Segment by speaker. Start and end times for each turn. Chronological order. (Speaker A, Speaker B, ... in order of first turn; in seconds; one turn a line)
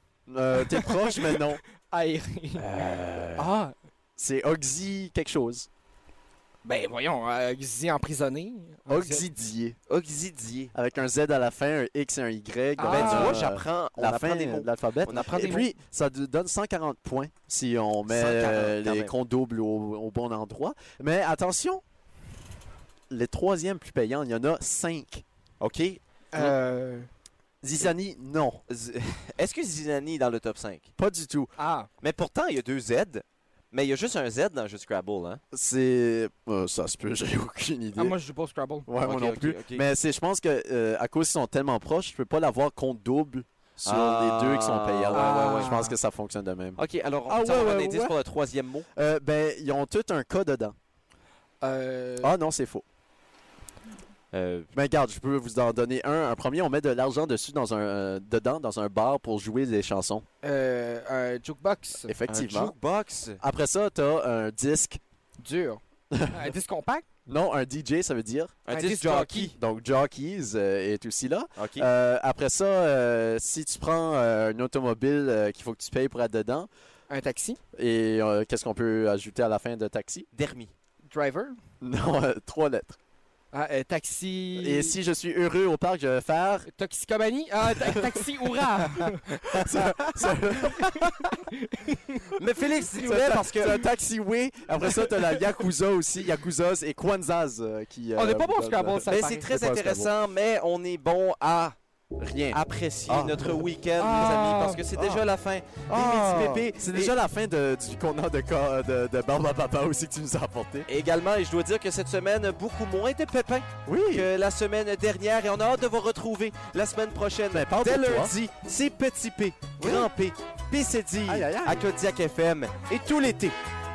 Speaker A: 0.3-1.6
Speaker B: 0.6-3.7
Speaker A: 2.6-3.5
Speaker A: 4.2-5.7
Speaker B: 6.7-9.3
Speaker A: 8.9-9.8
Speaker C: 9.9-10.7
Speaker A: 10.7-21.8
Speaker B: 12.8-13.4
Speaker C: 12.8-15.7
Speaker B: 15.3-15.7
Speaker C: 18.1-19.1
Speaker A: 23.1-25.2
Speaker C: 25.6-26.5
Speaker B: 26.3-27.1
Speaker A: 27.6-28.6
Speaker C: 28.7-30.9
Speaker A: 31.0-31.5
Speaker B: 31.6-31.9
Speaker C: 32.0-35.4
Speaker A: 35.5-38.2
Speaker B: 38.0-38.9
Speaker A: 38.9-48.2
Speaker C: 39.0-39.9
Speaker C: 43.9-45.8
Speaker B: 45.1-45.9
Speaker C: 46.8-48.9
Speaker A: 49.0-50.8
Speaker B: 51.6-52.3
Speaker A: 52.2-52.8
Speaker C: 54.3-54.7
Speaker A: 54.7-60.2
Speaker B: 60.4-62.1
Speaker A: 62.1-62.8
Speaker C: 62.3-63.4
Speaker A: 63.4-65.0
Speaker B: 65.4-67.0
Speaker A: 66.1-66.5
Speaker A: 67.3-68.6
Speaker C: 68.7-69.6
Speaker B: 68.7-69.5
Speaker A: 69.3-76.7
Speaker C: 71.6-71.9
Speaker B: 77.1-77.6
Speaker A: 77.8-80.3
Speaker C: 80.3-80.7
Speaker B: 81.1-81.6
Speaker A: 81.8-83.0
Speaker B: 83.5-85.0
Speaker A: 84.6-86.7
Speaker B: 86.7-89.8
Speaker A: 87.8-88.1
Speaker A: 89.5-91.2
Speaker B: 90.7-92.2
Speaker C: 92.3-93.8
Speaker A: 93.0-100.1
Speaker B: 98.2-99.5
Speaker C: 99.1-101.8
Speaker A: 102.2-103.7
Speaker C: 102.5-107.1
Speaker B: 104.0-104.8
Speaker A: 105.0-105.2
Speaker A: 105.9-110.9
Speaker C: 110.9-123.6
Speaker A: 113.9-114.3
Speaker A: 117.5-118.3
Speaker A: 119.8-120.1
Speaker A: 121.3-121.8